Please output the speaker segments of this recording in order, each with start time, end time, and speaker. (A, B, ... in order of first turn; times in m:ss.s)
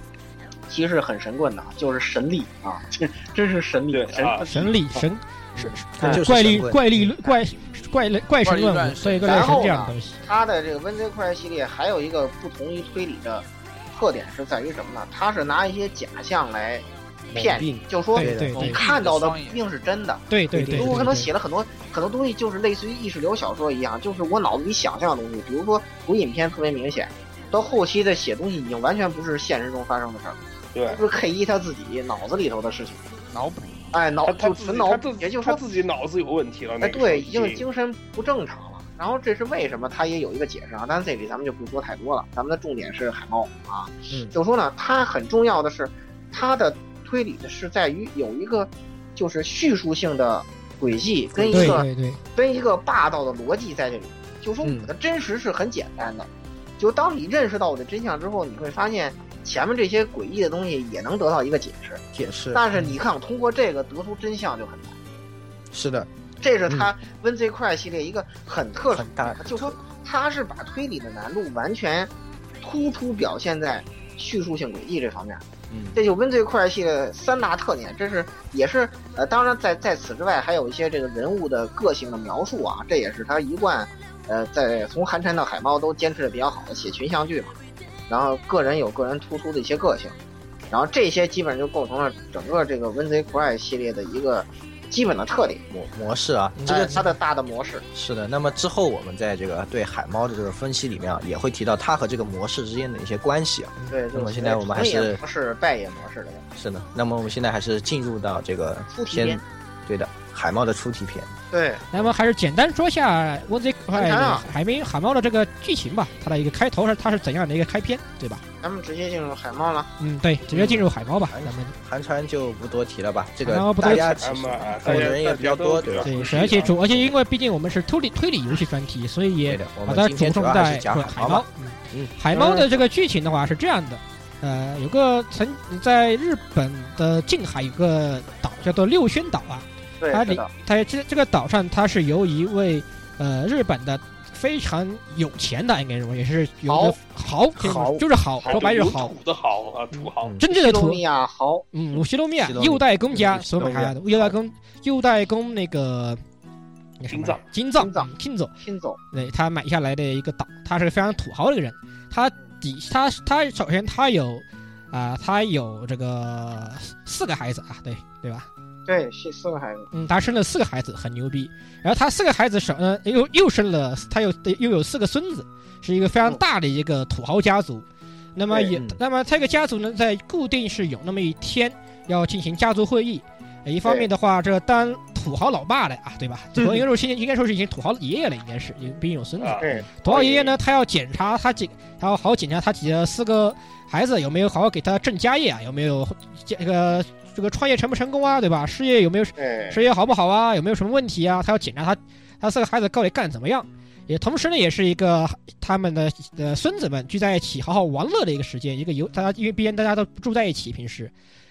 0:00.7-0:05.0 A
0:03.9-0:04.4 B
0:04.4-0:10.2 C
0:06.0-0:07.1 D
0:08.4-0:09.8 E
0:09.2-0:33.0 A
0:17.3-0:18.7 D
0:18.1-0:18.8 C
0:18.5-0:19.7 E
0:20.3-0:21.3 C
0:20.5-0:21.1 D
0:30.7-0:31.0 B
0:33.3-0:33.9 E
0:33.9-0:35.6 A
0:34.2-0:37.6 B
0:36.8-1:05.0 A
0:51.3-0:51.8 D
0:51.5-0:52.2 C
0:54.6-0:54.9 D
1:02.1-1:02.9 D
1:05.7-1:06.1 D
1:06.4-1:15.4 A
1:08.9-1:09.8 D
1:15.7-1:16.0 D
1:15.9-1:27.6 A
1:28.1-1:30.2 A
1:30.7-1:35.7 A
1:35.7-1:37.0 D
1:36.6-1:37.1 C
1:36.7-1:37.8 A
1:37.9-1:45.2 D
1:43.9-1:46.4 A
1:46.6-1:51.3 D
1:48.9-1:49.4 A
1:51.5-1:51.8 A
1:51.9-1:58.4 C
1:53.9-1:54.5 A
1:58.6-1:59.9 A
2:00.0-2:01.7 C
2:00.5-2:07.1 D
2:03.4-2:04.2 C
2:03.8-2:06.7 B
2:06.0-2:29.1 C
2:09.4-2:12.1 D
2:12.3-2:12.6 A
2:20.0-2:20.5 A
2:26.7-2:27.0 A
2:27.6-2:28.0 D
2:28.4-2:30.3 B
2:29.9-2:31.0 C
2:30.5-2:31.7 A
2:31.7-2:36.2 C
2:32.4-2:34.4 D
2:37.0-2:38.5 C
2:37.1-2:37.4 B
2:37.8-2:39.0 A
2:39.1-2:48.5 C
2:48.8-2:49.9 A
2:49.9-3:31.1 C
2:58.7-2:59.0 D
3:09.6-3:10.6 A
3:19.4-3:19.8 A